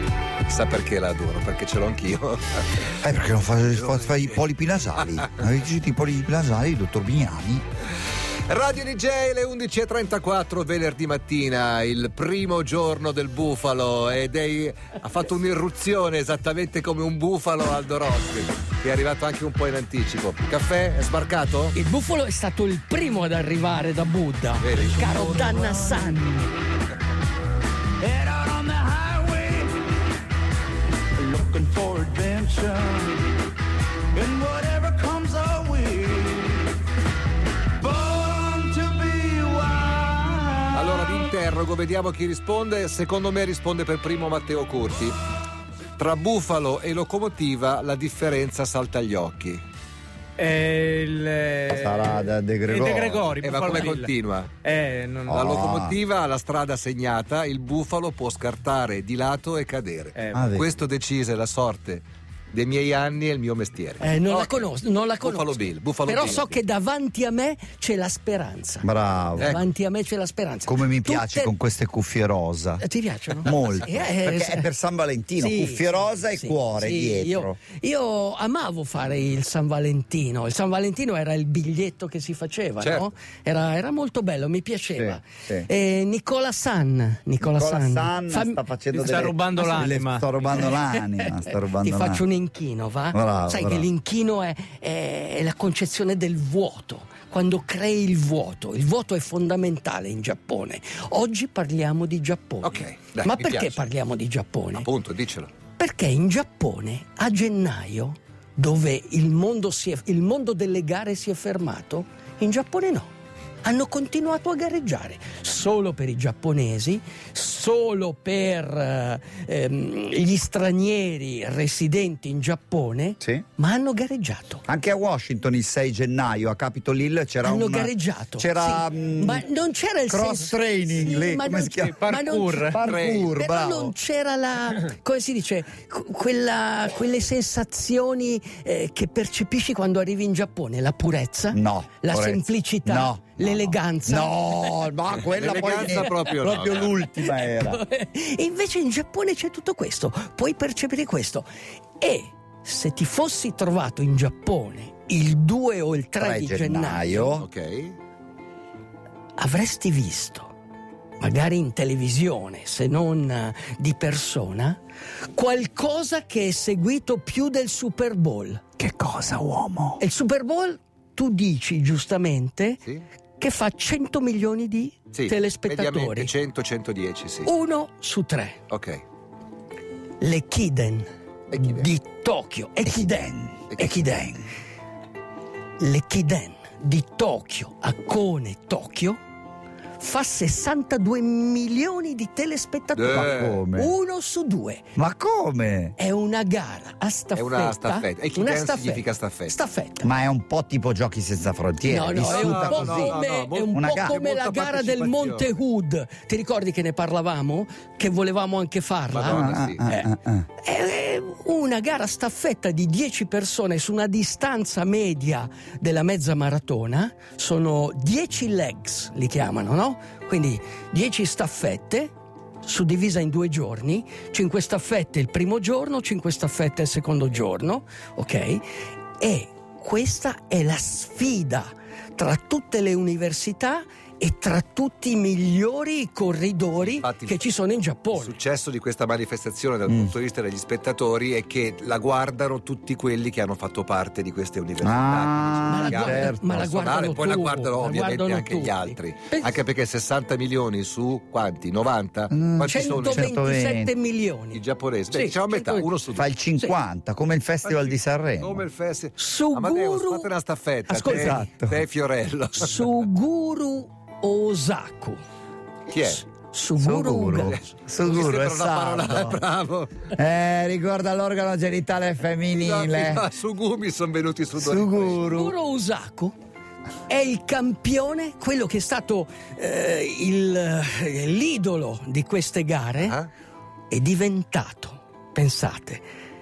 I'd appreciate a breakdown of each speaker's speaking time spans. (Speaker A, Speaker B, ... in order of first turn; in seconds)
Speaker A: 0.5-2.9, 3.9-4.3, 5.0-5.4, 8.5-21.8, 24.6-25.1, 40.6-45.2, 46.0-49.6, 53.4-54.6, 55.3-64.7, 65.2-66.6, 69.4-69.7, 73.5-74.1, 82.8-83.1, 102.6-103.9, 104.8-105.5, 132.8-133.3, 145.1-147.0, 157.4-158.0, 175.1-177.5, 178.7-179.0, 181.5-181.9, 183.7-184.1, 192.9-193.6, 197.3-199.6, 202.2-205.5, 209.1-209.9, 236.8-237.4, 238.1-253.3, 254.5-256.4, 257.7-263.0, 265.9-266.2, 267.4-270.1, 272.5-275.2, 283.0-283.3
Speaker B: 3.0-7.6, 51.7-53.4, 55.3-56.0, 60.3-60.7, 68.8-69.6, 70.7-72.8, 73.4-77.6, 84.9-85.7, 87.4-92.2, 93.1-93.9, 124.7-129.4, 130.1-133.9, 141.5-147.8, 156.2-157.4, 168.8-170.0, 182.9-184.4, 193.1-193.9, 195.0-195.9, 200.0-203.2, 203.7-204.2, 209.2-210.5, 244.8-246.7, 252.3-253.9, 256.1-258.6, 261.0-261.8, 266.8-269.4, 270.1-273.2, 274.6-275.6
Speaker C: 21.7-26.5, 64.0-71.5, 72.8-74.7, 75.4-88.6, 90.5-104.9, 105.8-113.1, 113.6-124.7, 127.4-144.9, 145.7-146.3, 146.9-151.4, 152.0-157.4, 159.4-160.5, 161.2-164.8, 165.3-168.8, 170.0-172.8, 173.4-176.3, 177.4-178.6, 180.2-184.4, 185.8-189.2, 190.0-194.8, 196.0-200.1, 201.8-222.1, 222.6-228.6, 229.2-238.4, 245.7-249.6, 252.6-254.6, 255.1-255.9, 259.2-260.3, 260.9-261.5, 262.6-265.2, 266.0-267.7, 275.2-276.4, 277.1-283.2, 283.9-286.0
Speaker D: 28.0-29.8, 31.2-33.2, 34.1-36.7, 37.8-40.6
Speaker E: 50.4-52.0, 52.7-55.3, 88.9-90.3, 132.2-132.7